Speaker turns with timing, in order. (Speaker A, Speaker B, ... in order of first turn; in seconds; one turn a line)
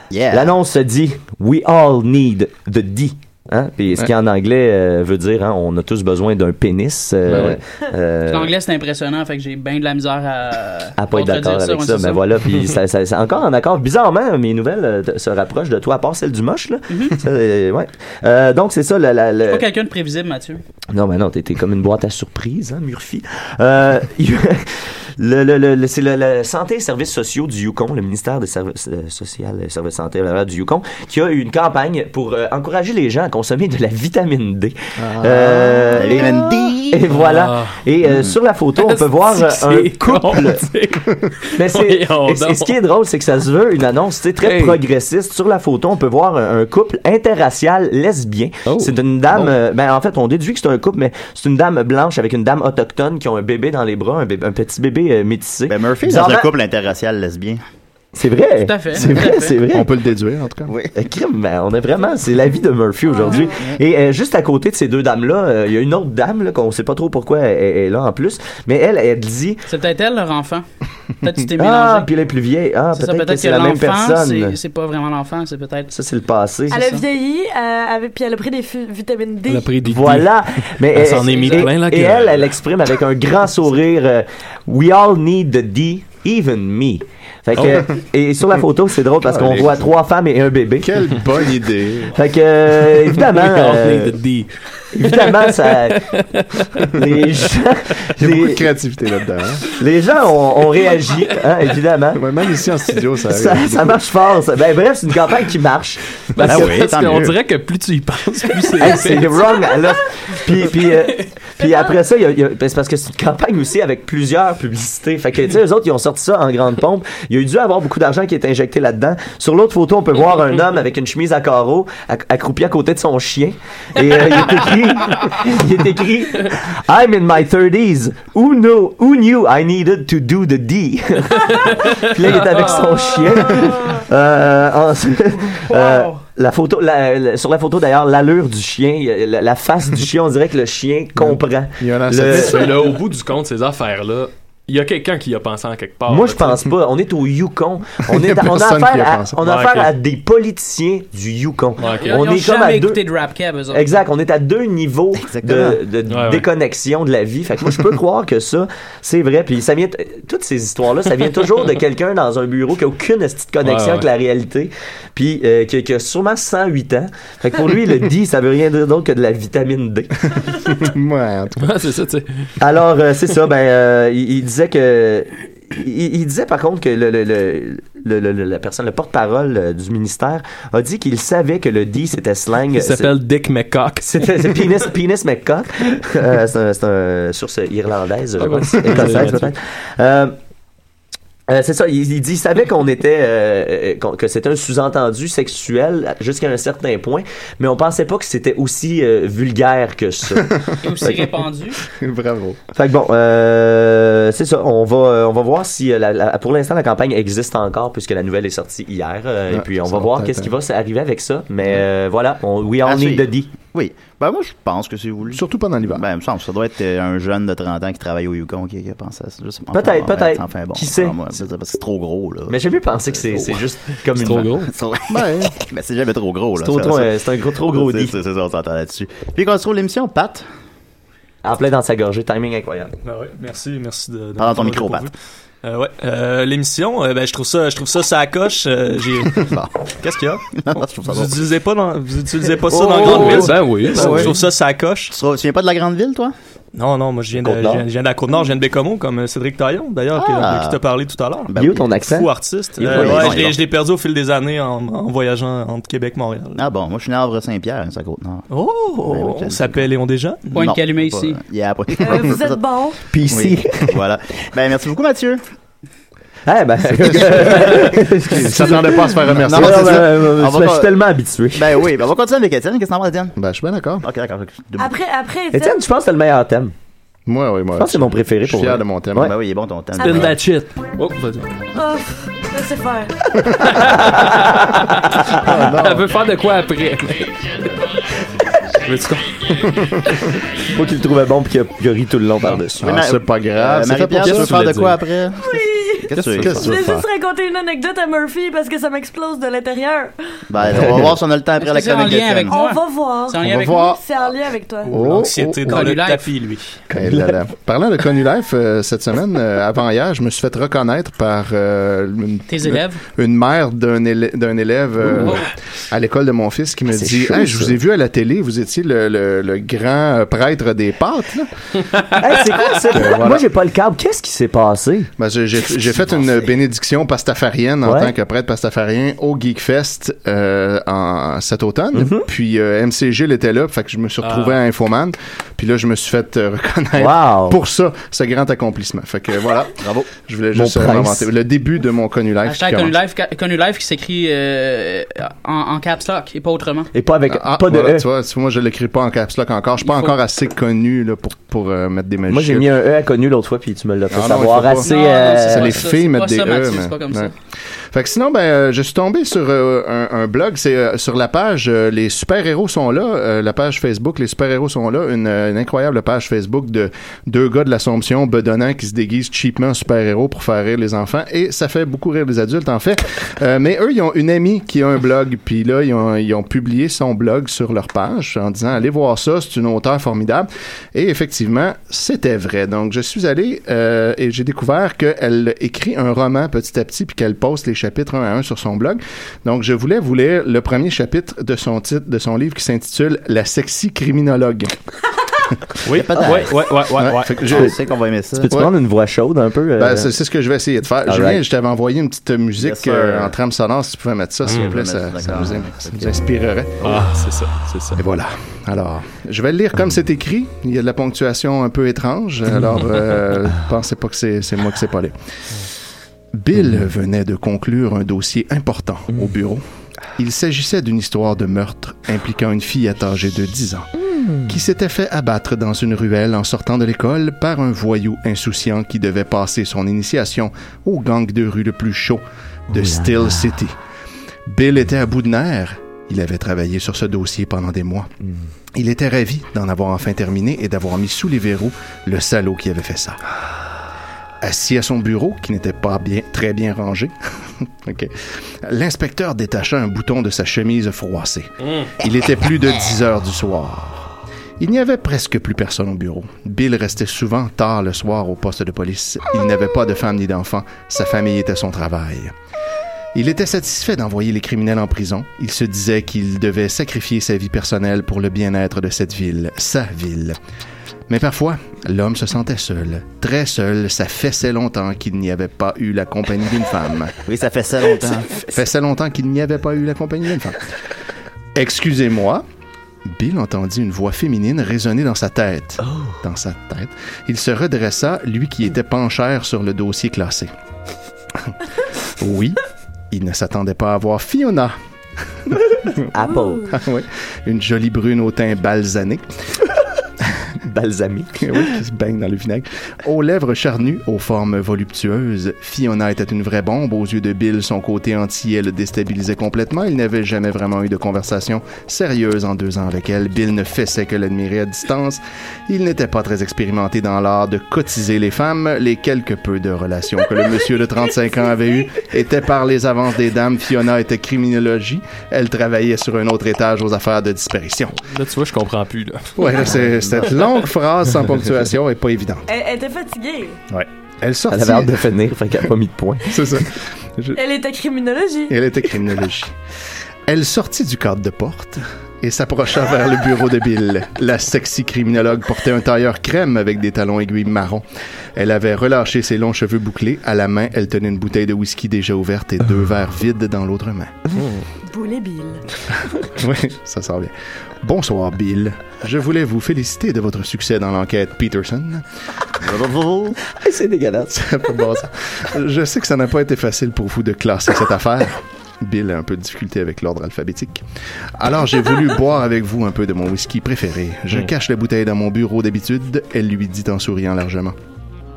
Speaker A: 0.1-0.5
Speaker B: 0.3-8.5
Speaker C: 7.3-7.6
Speaker D: 8.3-12.3
Speaker B: 11.0-19.7
Speaker D: 16.9-17.2
Speaker D: 19.5-20.6
Speaker B: 20.9-40.6
Speaker C: 35.0-36.3
Speaker A: 35.9-37.0
Speaker E: 37.1-37.8
Speaker A: 38.0-38.4
Speaker E: 38.8-42.7
Speaker B: 41.5-56.5
Speaker E: 44.4-44.8
Speaker E: 48.6-49.0
Speaker A: 55.7-57.6
Speaker B: 58.1-59.9
Speaker D: 58.5-59.6
Speaker C: 59.0-60.7
Speaker B: 60.9-69.6
Speaker F: 63.1-63.5
Speaker D: 69.7-70.6
Speaker D: 71.2-72.1
Speaker B: 71.6-74.6
Speaker D: 72.9-75.9
Speaker B: 75.9-76.9
Speaker F: 76.7-79.7
Speaker E: 79.5-80.3
Speaker B: 79.8-90.9
Speaker E: 80.9-82.5
Speaker D: 81.4-81.7
Speaker C: 89.2-89.9
Speaker C: 90.8-92.2
Speaker B: 92.1-94.2
Speaker E: 93.2-97.0
Speaker B: 94.9-96.1
Speaker B: 96.9-98.7
Speaker C: 98.2-99.6
Speaker B: 99.8-102.2
Speaker C: 102.1-104.0
Speaker B: 103.3-106.8
Speaker E: 106.3-109.3
Speaker A: 106.4-107.4
Speaker B: 108.8-142.8
Speaker E: 131.8-132.5
Speaker D: 132.5-133.5
Speaker D: 135.5-136.2
Speaker C: 141.2-142.9
Speaker E: 142.3-146.6
Speaker B: 146.1-153.0
Speaker C: 148.0-149.4
Speaker E: 149.4-149.9
Speaker E: 151.8-152.2
Speaker D: 151.8-154.0
Speaker B: 153.7-170.4
Speaker A: 155.2-155.8
Speaker E: 156.1-156.4
Speaker E: 163.6-164.1
Speaker C: 170.6-171.8
Speaker E: 171.6-172.5
Speaker B: 172.6-183.1
Speaker E: 182.7-184.3
Speaker B: 184.0-190.3
Speaker E: 188.4-189.5
Speaker B: 191.5-201.3
Speaker C: 200.3-201.1
Speaker D: 200.8-201.8
Speaker C: 201.8-202.6
Speaker B: 202.7-213.5
Speaker C: 209.5-210.5
Speaker A: 212.8-223.6
Speaker C: 215.3-216.0
Speaker B: 219.7-221.2
Speaker B: 222.5-224.5
Speaker E: 224.1-224.7
Speaker A: 224.6-230.4
Speaker C: 225.1-225.5
Speaker B: 226.6-228.2
Speaker B: 231.4-232.9
Speaker G: 233.0-235.1
Speaker A: 234.4-235.1
Speaker G: 235.6-245.1
Speaker A: 239.4-241.5
Speaker A: 242.7-244.4
Speaker B: 242.8-243.5
Speaker E: 243.0-244.3
Speaker A: 245.1-246.3
Speaker G: 246.7-251.5
Speaker B: 247.4-247.8
Speaker A: 250.1-250.8
Speaker A: 251.5-252.0
Speaker B: 251.6-253.5
Speaker G: 252.0-256.6
Speaker A: 252.8-253.6
Speaker A: 256.5-258.4
Speaker G: 258.5-260.6
Speaker A: 259.0-259.9
Speaker D: 260.5-261.4
Speaker A: 260.5-262.6
Speaker F: 262.0-263.0
Speaker B: 263.1-263.9
Speaker A: 263.3-265.4
Speaker B: 266.4-271.9
Speaker A: 267.0-268.0
Speaker C: 267.1-270.2
Speaker A: 268.6-270.9
Speaker A: 271.5-273.3
Speaker C: 273.4-274.0
Speaker A: 274.0-274.9
Speaker F: 274.8-275.8
Speaker B: 275.5-276.7
Speaker C: 277.3-279.3
Speaker B: 277.8-279.3
Speaker A: 279.2-280.4
Speaker F: 280.0-280.3
Speaker E: 280.0-281.5
Speaker F: 281.7-283.1
Speaker E: 283.6-287.3
Speaker B: 283.7-285.6
Speaker C: 285.4-286.1
Speaker E: 288.8-289.3
Speaker C: 289.6-290.2
Speaker B: 290.7-292.9
Speaker C: 292.8-294.6
Speaker A: 292.8-297.0
Speaker E: 294.2-295.0
Speaker F: 295.4-300.1
Speaker C: 296.3-297.0
Speaker A: 300.5-302.5
Speaker C: 300.7-301.0
Speaker D: 301.6-303.9
Speaker F: 302.5-305.1
Speaker C: 303.3-304.0
Speaker G: 304.8-306.8
Speaker C: 304.9-305.8
Speaker D: 305.7-306.3
Speaker C: 306.9-321.5
Speaker B: 306.9-307.3
Speaker D: 312.5-313.0
Speaker B: 316.9-317.8
Speaker B: 322.1-325.1
Speaker C: 322.8-323.5
Speaker C: 325.2-342.9
Speaker B: 327.8-328.1
Speaker B: 331.9-332.3
Speaker E: 334.2-334.6
Speaker B: 337.0-337.6
Speaker A: 339.8-340.1
Speaker B: 340.5-341.3
Speaker D: 342.4-346.9
Speaker B: 346.9-348.1
Speaker C: 347.3-352.7
Speaker D: 349.8-350.2
Speaker B: 352.3-355.8
Speaker C: 354.1-357.3
Speaker D: 354.8-357.3
Speaker C: 357.9-394.8
Speaker E: 395.8-397.5
Speaker A: 395.9-396.7
Speaker C: 396.9-397.8
Speaker A: 397.4-398.5
Speaker B: 398.3-400.1
Speaker C: 399.8-407.0
Speaker B: 401.1-401.4
Speaker A: 402.6-403.3
Speaker E: 404.4-404.7
Speaker A: 404.5-406.2
Speaker E: 406.8-408.0
Speaker C: 407.9-415.1
Speaker C: 416.3-419.6
Speaker C: 420.1-423.9
Speaker B: 424.1-424.4
Speaker C: 424.4-433.8
Speaker B: 432.7-433.5
Speaker C: 434.5-438.1
Speaker C: 438.7-443.2
Speaker C: 444.4-462.3
Speaker E: 451.6-451.9
Speaker C: 463.1-470.4
Speaker C: 471.1-477.1
Speaker A: 477.2-478.4
Speaker C: 478.5-480.6
Speaker C: 481.5-482.4
Speaker C: 483.0-490.5
Speaker C: 492.2-492.6
Speaker C: 493.1-494.7
Speaker C: 495.4-496.1
Speaker B: 496.1-496.8
Speaker C: 496.7-499.2
Speaker B: 500.6-501.6
Speaker C: 501.4-528.0
Speaker E: 528.0-529.5
Speaker C: 529.4-532.4
Speaker F: 532.5-533.6
Speaker C: 533.7-535.1
Speaker B: 534.5-536.4
Speaker C: 536.2-537.4
Speaker F: 537.3-538.5
Speaker C: 538.5-539.5
Speaker C: 540.3-547.8
Speaker C: 548.4-554.1
Speaker E: 554.4-554.6
Speaker F: 554.9-555.6
Speaker C: 556.2-562.0
Speaker A: 562.6-563.4
Speaker B: 563.5-564.4
Speaker C: 564.3-570.8
Speaker C: 571.4-577.7